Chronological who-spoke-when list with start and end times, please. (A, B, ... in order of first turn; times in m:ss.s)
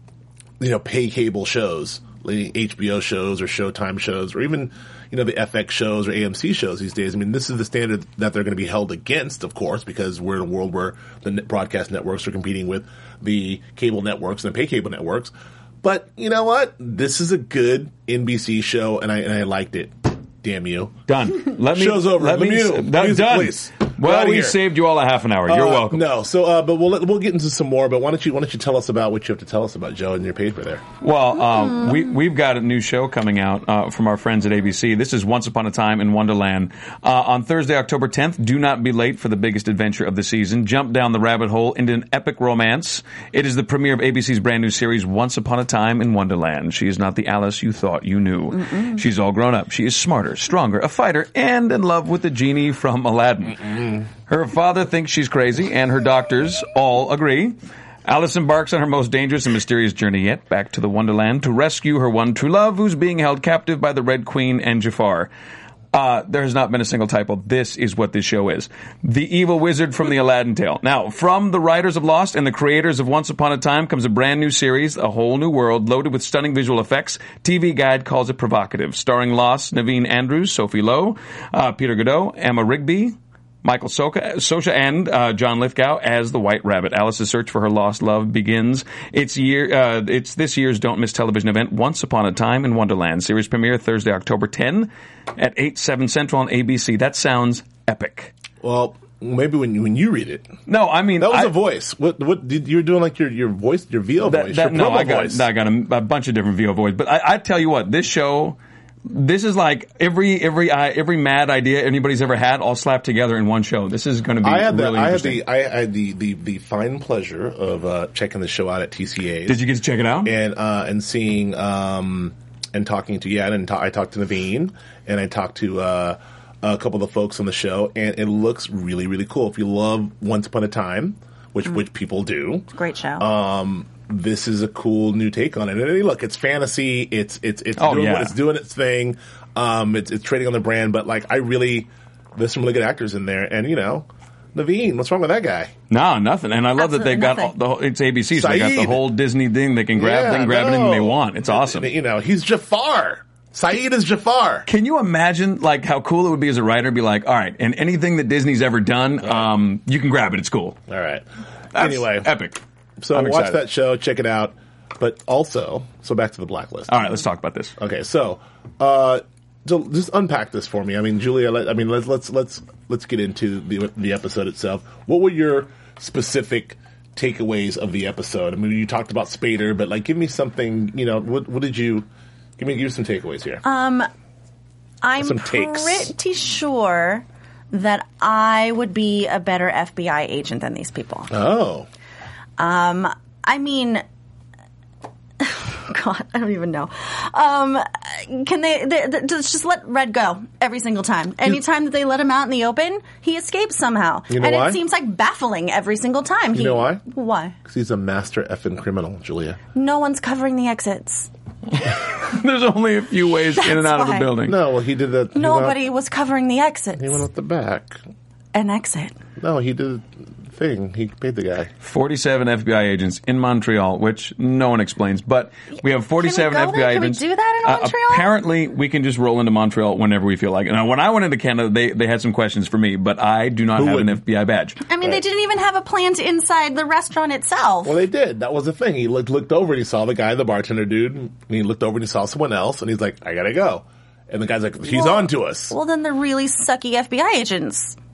0:00.6-0:24.6 A
0:21.1-0:26.1 B
0:25.5-0:30.9 A
0:31.0-1:05.3 B
1:05.9-1:38.3 B
1:38.6-1:40.5 A
1:40.7-1:41.6 B
1:41.2-1:45.4 A
1:44.2-1:55.4 B
1:54.4-1:59.6 A
1:59.5-2:00.3 B
2:00.2-2:12.7 A
2:12.7-2:13.3 C
2:13.2-2:25.7 A
2:17.8-2:18.4 B
2:25.9-2:31.9 B
2:26.8-2:27.5 C
2:28.3-2:29.0 A
2:30.0-2:34.7 A
2:34.7-2:40.8 B
2:40.9-2:42.3 A
2:41.7-2:42.6 B
2:43.0-2:47.1 A
2:43.1-2:43.6 B
2:46.9-2:47.8 B
2:47.8-3:02.1 A
3:02.6-3:03.6 A
3:03.6-3:04.1 C
3:05.0-3:11.3 C
3:05.2-3:06.1 A
3:11.3-3:11.9 A
3:12.6-3:14.0 C
3:15.4-3:27.6 C
3:24.3-3:24.8 A
3:26.5-3:27.0 A
3:27.7-3:29.6 A
3:29.7-3:31.3 C
3:31.9-3:34.6 B
3:33.6-3:34.3 C
3:34.4-3:35.8 A
3:35.3-3:37.2 C
3:37.0-3:38.0 A
3:38.5-3:39.2 C
3:39.4-3:41.7 A
3:41.8-3:54.8 B
3:46.2-3:48.3 C
3:53.8-3:54.2 A
3:54.9-3:58.0 C
3:57.8-4:05.8 A
4:04.9-4:08.0 C